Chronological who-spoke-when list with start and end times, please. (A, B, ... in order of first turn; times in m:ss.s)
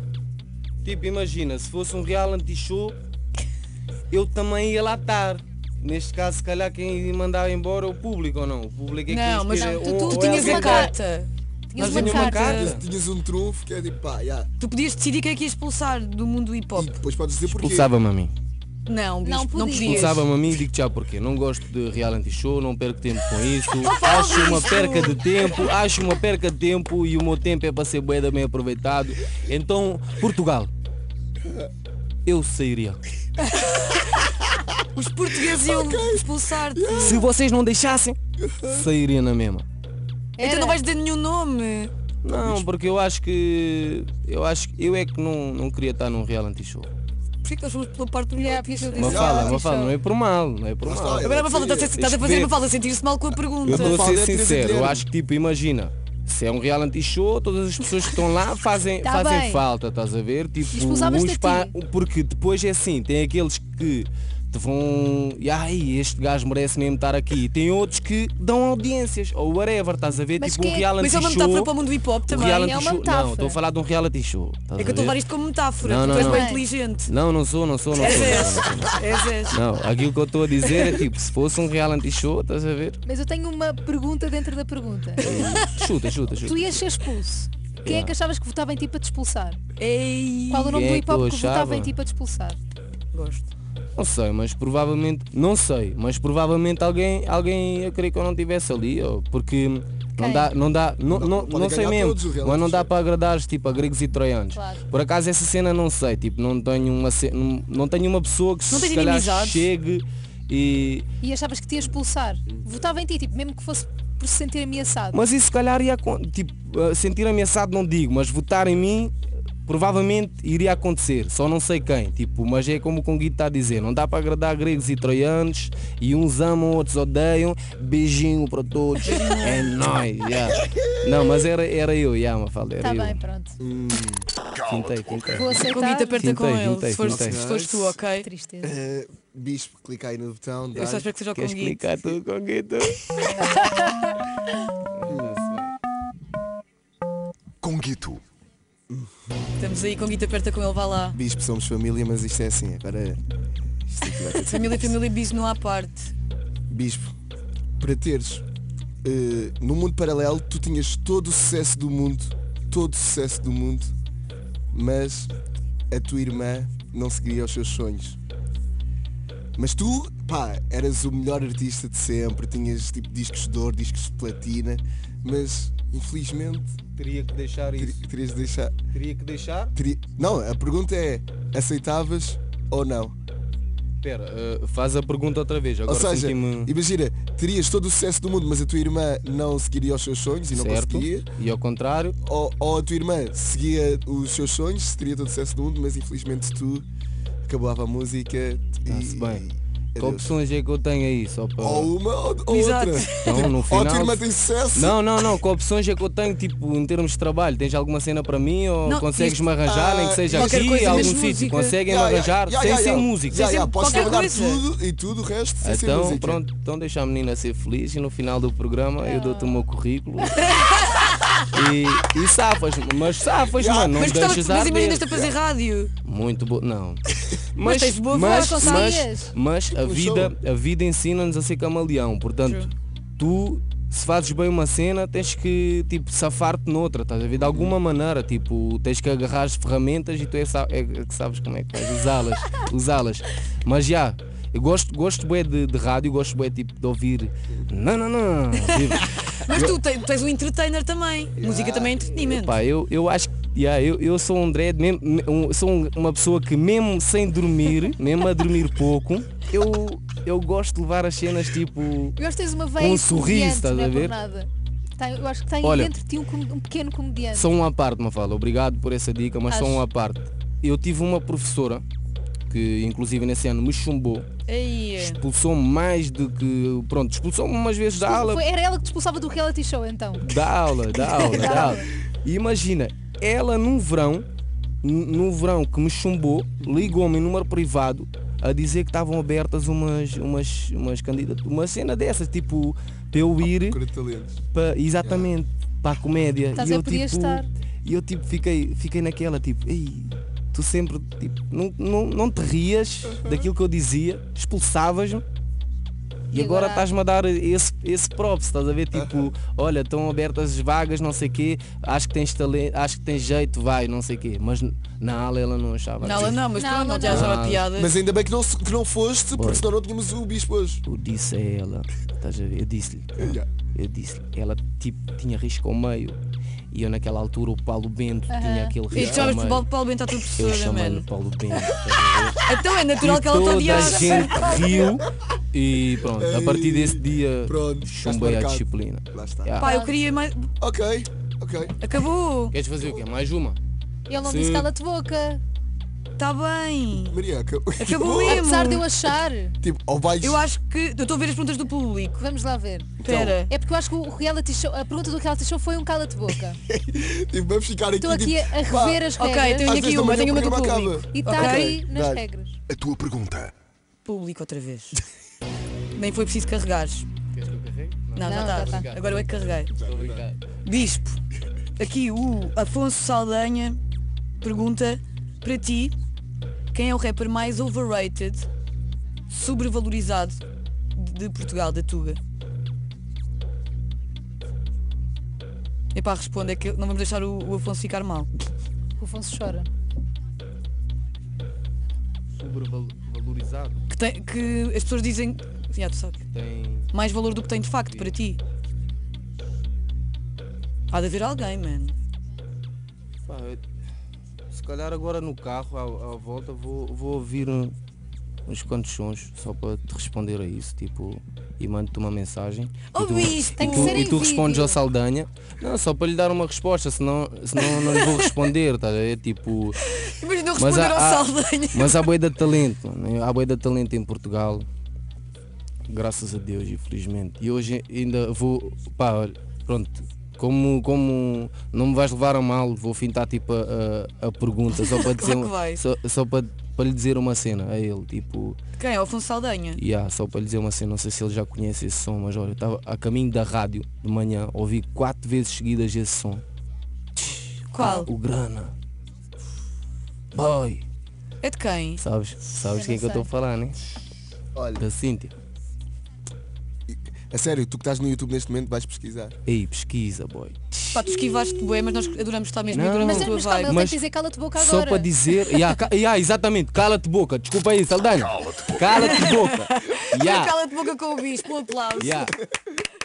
0:00.8-0:03.0 A
0:04.1-0:10.9 A
0:09.1-0:12.8 B
0:10.2-0:10.9 C
0:11.7-0:12.6 C
0:11.8-0:12.9 A
0:12.5-0:14.5 D
0:14.6-0:17.0 B
0:16.8-0:17.9 D
0:17.4-0:18.3 A
0:18.8-0:20.3 B
0:19.2-0:20.1 C
0:19.8-0:30.7 A
0:23.8-0:25.2 B
0:32.2-0:33.0 A
0:34.9-0:37.3 B
0:35.5-0:37.2 D
0:37.0-0:39.6 A
0:38.4-0:38.8 D
0:40.4-0:40.8 C
0:40.4-0:41.9 B
0:42.2-0:46.9 A
0:42.3-0:42.6 D
0:47.4-0:49.6 B
0:48.4-0:49.9 C
0:48.9-0:51.4 A
0:48.9-0:49.5 D
0:50.8-0:51.9 D
0:51.2-0:54.1 B
0:51.9-0:52.6 A
0:53.6-0:55.0 D
0:53.6-1:11.7 A
0:59.0-0:59.6 C
1:00.7-1:01.8 C
1:10.4-1:10.9 C
1:11.0-1:12.7 B
1:12.2-1:15.2 A
1:12.6-1:13.6 C
1:14.8-1:17.1 B
1:15.8-1:16.5 A
1:16.1-1:16.6 C
1:17.0-1:19.0 A
1:17.9-1:19.6 B
1:19.5-1:23.0 A
1:20.6-1:21.0 B
1:23.0-1:25.2 C
1:25.2-1:25.9 B
1:25.2-1:26.9 A
1:26.4-1:29.6 C
1:27.8-1:28.2 A
1:29.8-1:30.9 B
1:30.5-1:32.6 C
1:30.7-1:31.9 A
1:33.1-1:33.5 B
1:34.0-1:51.1 A
1:40.2-1:40.5 C
1:41.1-1:42.9 D
1:44.5-1:44.8 C
1:48.7-1:49.7 B
1:51.2-1:55.2 C
1:55.1-1:59.1 A
1:59.6-2:13.2 A
2:09.0-2:09.8 B
2:12.8-2:13.6 C
2:13.6-2:14.3 D
2:14.6-2:15.6 A
2:14.7-2:15.2 E
2:15.3-2:16.2 C
2:15.6-2:18.3 B
2:16.1-2:17.4 A
2:17.1-2:18.0 D
2:18.2-2:18.8 C
2:18.6-2:21.1 D
2:20.8-2:21.8 B
2:21.3-2:23.4 A
2:23.4-2:24.1 C
2:24.9-2:25.8 A
2:25.1-2:25.4 D
2:27.6-2:28.2 E
2:28.9-2:29.3 D
2:29.6-2:31.2 B
2:31.1-2:33.2 D
2:33.9-2:35.0 D
2:34.3-2:36.1 B
2:36.7-2:37.1 D
2:37.8-2:38.4 D
2:39.0-2:43.9 D
2:44.7-2:45.3 D
2:45.9-2:48.2 D
2:49.6-2:56.8 D
2:57.0-2:58.0 A
2:57.8-2:58.8 D
2:58.9-2:59.7 A
2:59.8-3:03.2 D
3:04.0-3:06.7 A
3:05.9-3:11.3 D
3:10.5-3:12.2 A
3:12.2-3:16.9 D
3:17.4-3:20.4 D
3:18.9-3:19.4 A
3:20.0-3:21.9 A
3:21.6-3:25.0 D
3:22.5-3:23.5 B
3:23.2-3:34.2 A
3:28.8-3:29.5 B
3:29.6-3:31.2 D
3:30.3-3:31.8 B
3:31.9-3:36.4 D
3:33.8-3:34.6 B
3:35.6-3:40.6 A
3:39.0-3:39.6 C
3:40.5-3:41.2 B
3:41.5-3:45.1 A
3:43.5-3:44.3 D
3:43.9-3:45.9 B
3:46.0-3:47.0 A
3:47.5-3:52.7 A
3:47.6-3:49.0 B
3:48.2-3:49.4 C
3:49.7-3:50.3 D
3:52.4-3:52.7 B
3:53.2-4:09.7 A
3:57.4-3:57.8 D
4:08.7-4:12.6 B
4:09.5-4:09.8 D
4:11.4-4:12.1 D
4:12.2-4:22.2 A
4:22.2-4:27.5 C
4:22.8-4:24.2 A
4:25.6-4:25.9 A
4:27.3-4:31.8 A
4:29.5-4:29.8 C
4:32.5-4:34.3 A
4:34.5-4:35.2 B
4:35.0-4:38.4 A
4:38.0-4:41.9 C
4:40.2-4:44.2 A
4:44.8-4:53.8 A
4:46.6-4:46.9 D
4:53.4-4:54.4 D
4:54.5-5:05.2 A
4:55.0-4:55.3 D
4:56.5-4:57.5 C
5:06.3-5:16.4 A
5:06.3-5:06.9 C
5:08.9-5:09.3 D
5:16.0-5:17.9 B
5:16.1-5:16.4 D
5:16.5-5:17.3 C
5:17.0-5:17.7 A
5:17.7-5:20.8 D
5:19.3-5:19.6 A
5:20.8-5:26.2 A
5:23.2-5:23.5 D
5:26.7-5:29.7 A
5:28.3-5:28.8 C
5:28.9-5:31.0 B
5:28.9-5:29.3 D
5:30.4-5:32.4 A
5:32.5-5:34.8 B
5:33.0-5:39.8 A
5:33.7-5:34.6 D
5:36.2-5:39.6 D
5:39.6-5:40.0 C
5:39.6-5:40.5 B
5:40.6-5:41.8 D
5:41.8-5:42.5 B
5:42.5-5:43.6 A
5:44.1-5:45.4 C
5:44.2-5:44.7 A
5:46.2-5:47.2 B
5:47.1-5:48.6 D
5:47.8-5:48.9 B
5:48.2-5:49.6 C
5:49.6-5:50.5 D
5:50.2-5:52.2 B
5:52.2-5:53.0 C
5:53.0-5:53.4 D
5:53.0-5:53.5 B
5:53.5-5:56.6 C
5:56.6-5:59.1 D
5:58.0-5:59.8 C
5:59.2-6:01.8 B
5:59.6-6:02.2 D
6:01.1-6:02.6 C
6:02.7-6:03.5 E
6:04.0-6:05.0 B
6:05.9-6:07.1 B
6:07.3-6:10.4 A
6:08.1-6:09.7 B
6:08.2-6:08.9 C
6:09.7-6:10.2 D
6:10.6-6:11.2 B
6:11.8-6:13.8 B
6:14.4-6:16.0 B
6:16.7-6:18.5 B
6:19.3-6:20.4 B
6:21.0-6:22.2 B
6:25.9-6:28.3 B
6:29.0-6:29.7 C
6:32.4-6:33.8 A
6:33.9-6:36.2 B
6:36.3-6:36.9 A
6:36.9-6:38.4 B
6:37.9-6:38.2 A
6:40.9-6:42.0 B
6:43.2-6:43.6 A
6:44.5-6:47.8 A
6:48.5-6:59.8 A
6:52.9-6:54.2 B
6:53.6-6:54.8 C
6:57.6-6:58.4 B
6:59.8-7:02.0 B
7:00.6-7:04.7 A
7:05.9-7:18.6 A
7:14.7-7:15.8 B
7:18.8-7:19.8 B
7:19.8-7:26.4 A
7:27.2-7:28.7 A
7:27.7-7:28.1 B
7:30.3-7:30.8 A
7:31.4-7:32.0 B
7:32.0-7:33.8 A
7:32.6-7:33.3 C
7:34.5-7:34.9 D
7:34.8-7:35.3 A
7:36.9-7:39.4 D
7:39.5-7:42.2 A
7:40.9-7:43.8 B
7:42.7-7:45.1 C
7:42.7-7:50.7 A
7:48.3-7:48.8 E
7:48.9-7:52.4 B
7:52.0-7:52.4 A